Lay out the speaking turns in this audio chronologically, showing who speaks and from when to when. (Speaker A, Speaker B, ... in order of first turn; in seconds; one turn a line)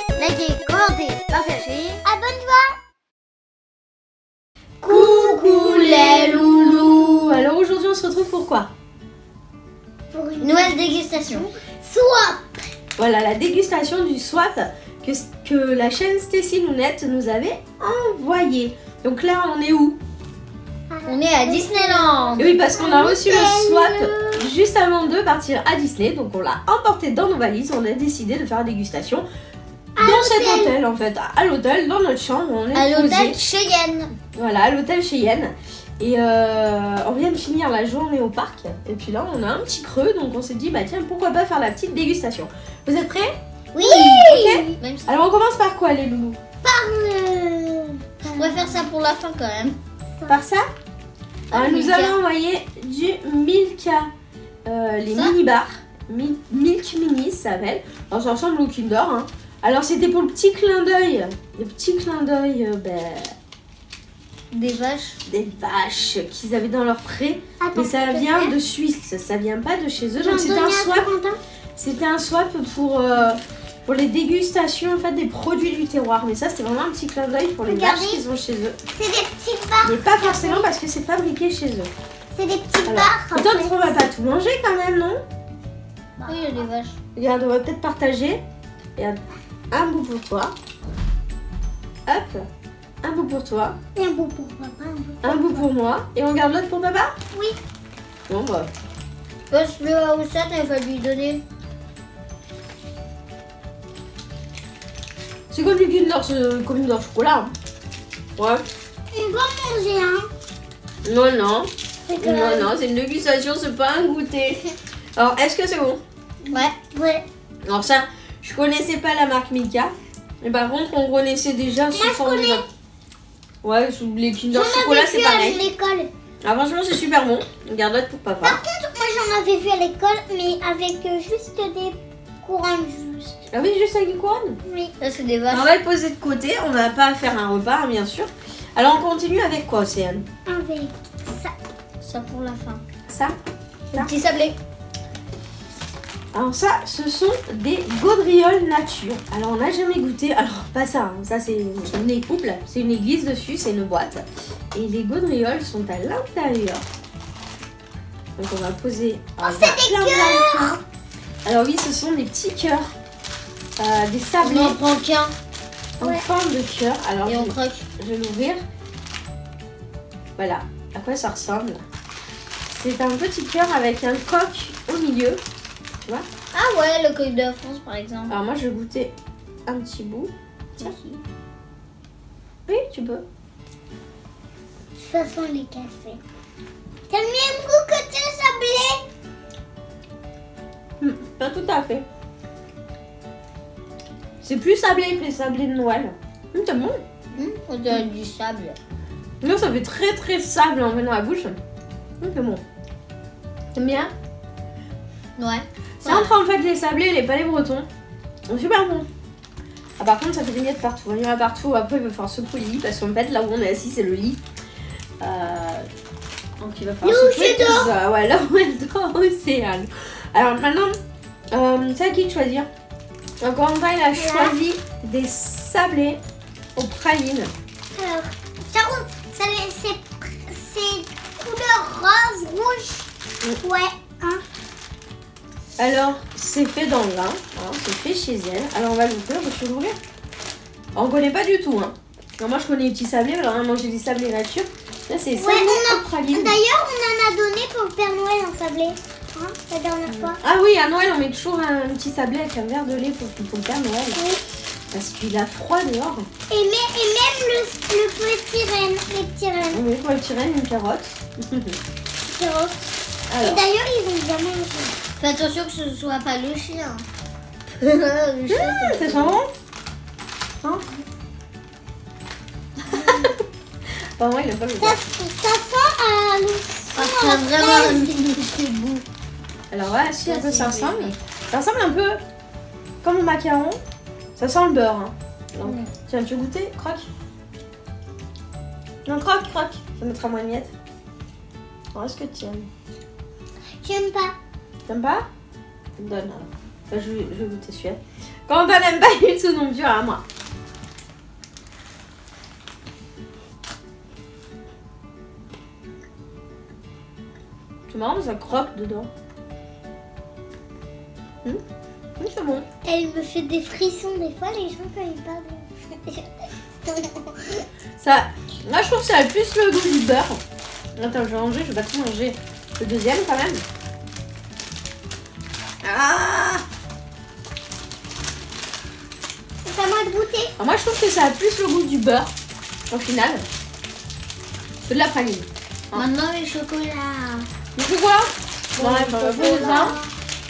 Speaker A: 0.2-1.8
Speaker B: 1.3-2.0
Speaker C: 2.0-2.8
Speaker C: 4.8-6.1
Speaker B: 4.9-8.7
Speaker A: 5.7-7.1
Speaker C: 10.1-12.4
Speaker A: 10.4-11.5
Speaker B: 13.0-20.0
Speaker C: 20.9-24.5
Speaker A: 21.1-22.5
Speaker B: 22.4-29.2
Speaker C: 29.9-30.8
Speaker B: 30.0-33.4
Speaker A: 32.7-34.1
Speaker B: 34.3-46.4
Speaker C: 43.7-44.8
Speaker A: 44.8-45.1
Speaker C: 46.6-48.9
Speaker A: 48.2-49.8
Speaker B: 50.3-50.7
Speaker A: 51.5-52.2
Speaker B: 51.5-54.1
Speaker B: 54.6-63.3
Speaker A: 55.1-55.4
Speaker A: 64.5-65.2
Speaker B: 65.2-71.1
Speaker C: 67.6-68.5
Speaker C: 70.2-71.4
Speaker B: 71.8-78.8
Speaker C: 77.7-78.2
Speaker C: 79.0-80.7
Speaker B: 79.8-81.9
Speaker C: 82.3-84.0
Speaker B: 82.8-85.2
Speaker C: 86.2-86.7
Speaker A: 86.3-87.0
Speaker B: 87.2-88.4
Speaker B: 89.7-90.5
Speaker B: 92.1-92.5
Speaker B: 93.0-93.8
Speaker C: 93.9-95.7
Speaker B: 95.2-97.1
Speaker B: 98.3-98.7
Speaker A: 99.5-101.4
Speaker B: 105.5-107.5
Speaker B: 108.4-108.6
Speaker C: 109.1-110.3
Speaker B: 111.0-116.0
Speaker C: 112.1-112.7
Speaker C: 116.5-117.2
Speaker B: 117.7-122.6
Speaker C: 121.9-122.6
Speaker B: 123.6-125.6
Speaker C: 124.5-126.1
Speaker B: 126.4-128.6
Speaker C: 128.4-133.4
Speaker B: 133.5-134.6
Speaker C: 134.7-134.9
Speaker A: 135.0-135.7
Speaker B: 135.5-140.2
Speaker C: 140.5-141.5
Speaker A: 142.0-142.8
Speaker B: 143.1-143.3
Speaker A: 143.9-144.6
Speaker B: 146.3-156.8
Speaker B: 158.4-160.8
Speaker C: 159.4-160.8
Speaker B: 161.4-162.9
Speaker B: 163.8-164.8
Speaker A: 164.4-165.3
Speaker B: 166.0-168.6
Speaker A: 167.2-167.9
Speaker B: 170.3-171.8
Speaker B: 172.7-175.4
Speaker A: 176.5-178.3
Speaker B: 178.3-179.1
Speaker B: 179.7-180.9
Speaker A: 180.8-181.2
Speaker B: 182.7-183.2
Speaker C: 185.0-186.2
Speaker C: 187.1-189.0
Speaker B: 191.0-192.1
Speaker B: 194.4-197.0
Speaker A: 197.3-198.8
Speaker B: 199.4-201.6
Speaker B: 202.2-202.6
Speaker B: 203.7-204.1
Speaker A: 205.4-206.3
Speaker B: 206.0-207.9
Speaker B: 208.5-209.1
Speaker B: 210.0-214.4
Speaker B: 215.2-215.9
Speaker B: 216.6-220.9
Speaker C: 217.0-217.9
Speaker B: 221.5-222.7
Speaker B: 223.4-226.2
Speaker C: 224.1-224.6
Speaker B: 226.8-227.5
Speaker C: 227.9-233.1
Speaker C: 233.6-234.4
Speaker B: 235.8-240.0
Speaker B: 240.9-246.6
Speaker C: 245.3-250.4
Speaker B: 250.1-254.2
Speaker C: 254.1-254.4
Speaker B: 254.9-256.3
Speaker C: 256.5-259.8
Speaker B: 259.7-261.8
Speaker C: 262.2-265.0
Speaker B: 263.3-263.6
Speaker A: 265.2-267.0
Speaker A: 267.8-269.4
Speaker B: 268.5-269.5
Speaker B: 272.9-273.4
Speaker B: 274.2-275.0
Speaker C: 274.8-278.1
Speaker A: 276.9-279.0
Speaker B: 279.7-282.2
Speaker A: 280.2-281.2
Speaker B: 283.0-283.8
Speaker B: 284.4-287.1
Speaker A: 285.6-285.9
Speaker B: 289.0-290.7
Speaker B: 291.9-292.7
Speaker C: 293.8-294.4
Speaker B: 294.9-295.2
Speaker B: 296.0-300.2
Speaker B: 307.9-309.1
Speaker B: 312.2-312.6
Speaker C: 312.8-316.3
Speaker C: 316.8-317.6
Speaker B: 318.0-320.4
Speaker B: 320.9-323.6
Speaker B: 325.8-326.6
Speaker C: 329.6-330.5
Speaker B: 330.6-332.3
Speaker B: 332.9-333.4
Speaker B: 334.9-336.1
Speaker A: 335.9-337.5
Speaker B: 337.8-340.0
Speaker A: 338.8-339.9
Speaker C: 339.2-340.1